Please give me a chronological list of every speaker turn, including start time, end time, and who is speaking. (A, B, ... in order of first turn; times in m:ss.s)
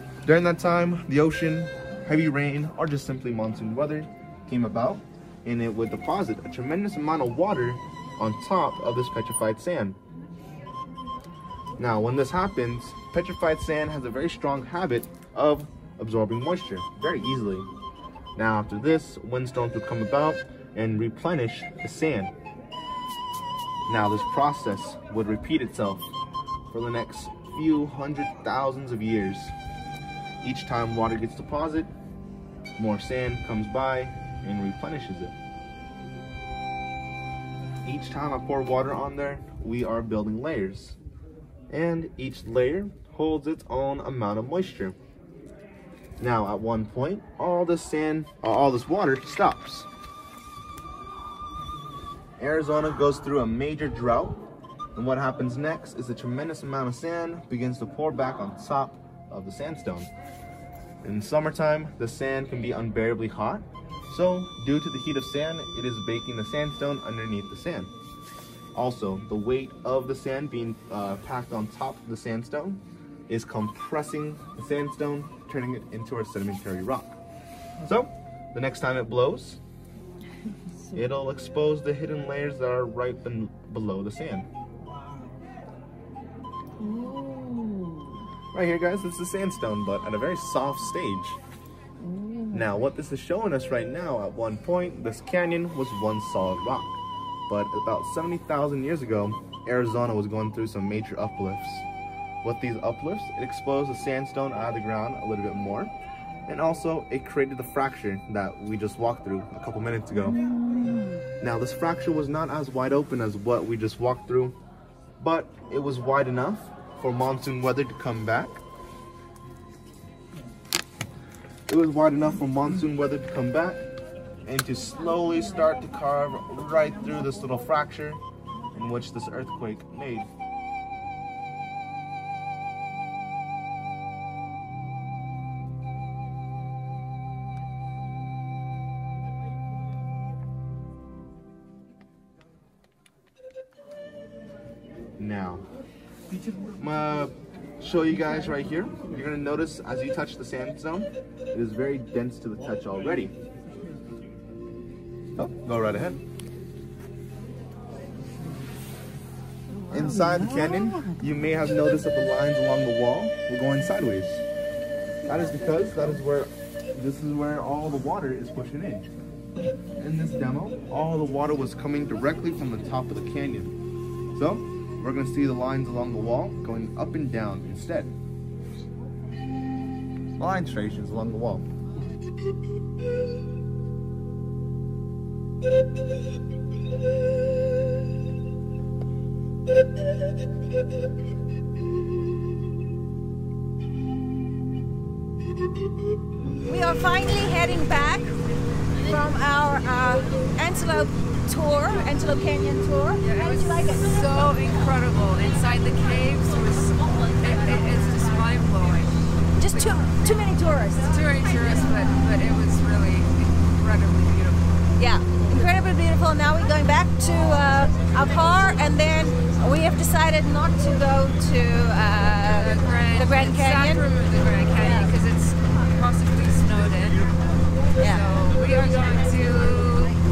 0:00.2-0:10.0 A
0:11.8-0:17.7 A
0:18.3-0:22.3 A
0:23.9-0:26.1 A
0:26.7-0:29.5 A
0:30.4-0:31.9 A
0:32.8-0:35.3 A
0:37.8-0:41.0 A
0:41.7-0:45.0 A
0:46.2-0:49.9 A
0:52.4-0:54.4 A
0:54.9-1:00.1 A
1:01.0-1:07.9 A
1:08.7-1:17.2 A
1:17.8-1:19.6 A
1:20.9-1:24.5 A
1:26.9-1:27.9 B
1:28.5-1:31.4 A
1:32.2-1:32.4 B
1:32.5-1:41.9 A
1:42.4-1:45.9 A
1:46.4-1:50.4 A
1:51.4-1:54.6 A
1:55.2-1:58.6 A
2:01.7-2:03.8 A
2:04.4-2:08.2 A
2:08.7-2:10.3 A
2:25.2-2:25.6 A
2:26.8-2:33.3 A
2:35.4-2:36.2 A
2:39.9-2:44.4 A
2:45.2-2:49.1 A
2:50.0-2:53.7 A
2:54.3-2:58.1 A
3:00.4-3:01.6 A
3:16.6-3:18.3 B
3:19.0-3:24.3 B
3:23.2-3:30.0 C
3:29.6-3:31.1 B
3:31.1-3:34.8 C
3:35.0-3:44.1 B
3:42.5-3:47.3 C
3:44.7-3:45.1 B
3:48.0-3:48.3 B
3:48.0-3:50.2 C